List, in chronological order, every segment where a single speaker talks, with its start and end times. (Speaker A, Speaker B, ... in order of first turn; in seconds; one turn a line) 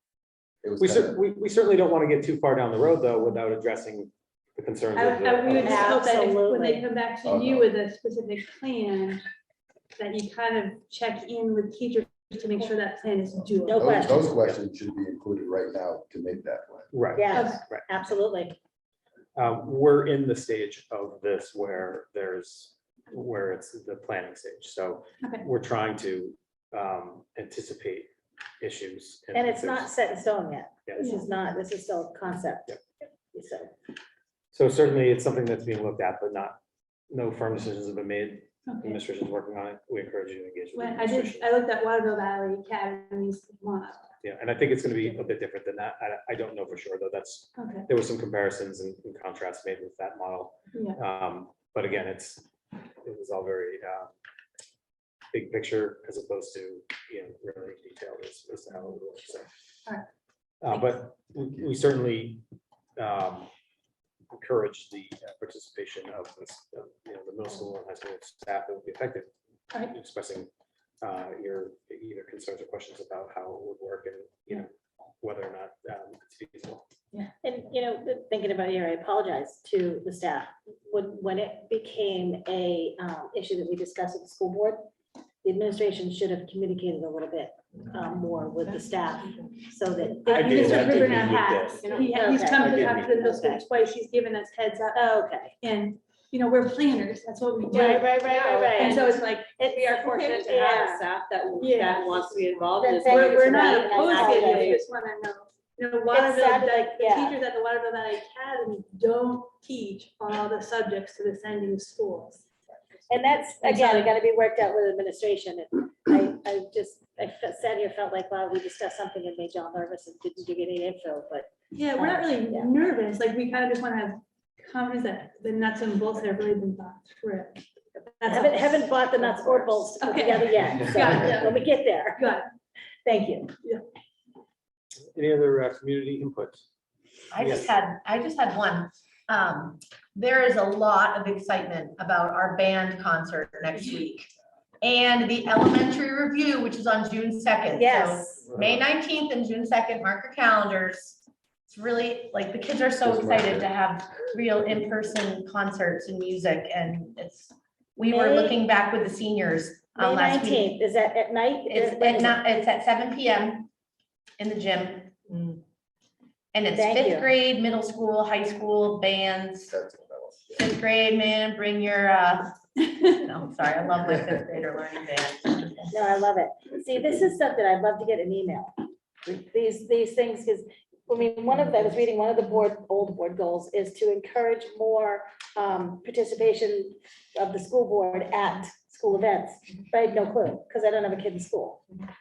Speaker A: 0.6-1.2
Speaker B: 0.8-6.0
Speaker C: 4.9-9.2
Speaker D: 5.5-6.8
Speaker A: 7.2-7.7
Speaker C: 10.0-14.3
Speaker D: 13.7-14.2
Speaker A: 13.7-16.9
Speaker B: 14.3-14.6
Speaker B: 16.9-17.9
Speaker D: 17.2-18.6
Speaker C: 17.3-17.6
Speaker B: 19.4-29.9
Speaker C: 25.2-25.5
Speaker D: 29.3-32.7
Speaker C: 31.0-31.3
Speaker D: 33.3-33.7
Speaker B: 34.5-36.6
Speaker B: 37.1-41.5
Speaker C: 38.7-39.0
Speaker C: 40.7-44.1
Speaker B: 44.2-52.5
Speaker C: 47.6-47.9
Speaker C: 50.7-51.0
Speaker B: 53.0-54.1
Speaker B: 55.3-59.5
Speaker B: 60.6-62.4
Speaker B: 63.0-63.5
Speaker B: 64.3-69.3
Speaker B: 69.8-70.5
Speaker B: 71.0-76.9
Speaker D: 77.4-84.8
Speaker D: 85.4-91.1
Speaker C: 90.2-95.1
Speaker B: 90.3-92.0
Speaker E: 91.8-92.2
Speaker D: 92.0-93.6
Speaker D: 94.9-95.5
Speaker C: 95.6-99.6
Speaker D: 97.7-99.0
Speaker E: 97.8-104.8
Speaker D: 99.6-101.1
Speaker C: 101.6-102.2
Speaker D: 102.8-104.8
Speaker C: 103.0-112.5
Speaker D: 106.1-107.4
Speaker D: 113.1-122.7
Speaker C: 113.6-114.1
Speaker C: 121.7-132.5
Speaker D: 128.3-132.4
Speaker D: 133.1-133.5
Speaker B: 135.1-136.7
Speaker F: 137.3-144.3
Speaker B: 137.4-137.7
Speaker F: 144.8-160.8
Speaker D: 147.7-148.5
Speaker A: 153.0-153.7
Speaker D: 158.1-158.6
Speaker D: 160.0-162.4
Speaker F: 161.7-163.7
Speaker F: 164.4-165.6
Speaker F: 166.5-169.7
Speaker D: 166.7-167.3
Speaker A: 169.7-170.7
Speaker F: 170.6-175.9
Speaker D: 175.9-178.8
Speaker D: 179.3-191.8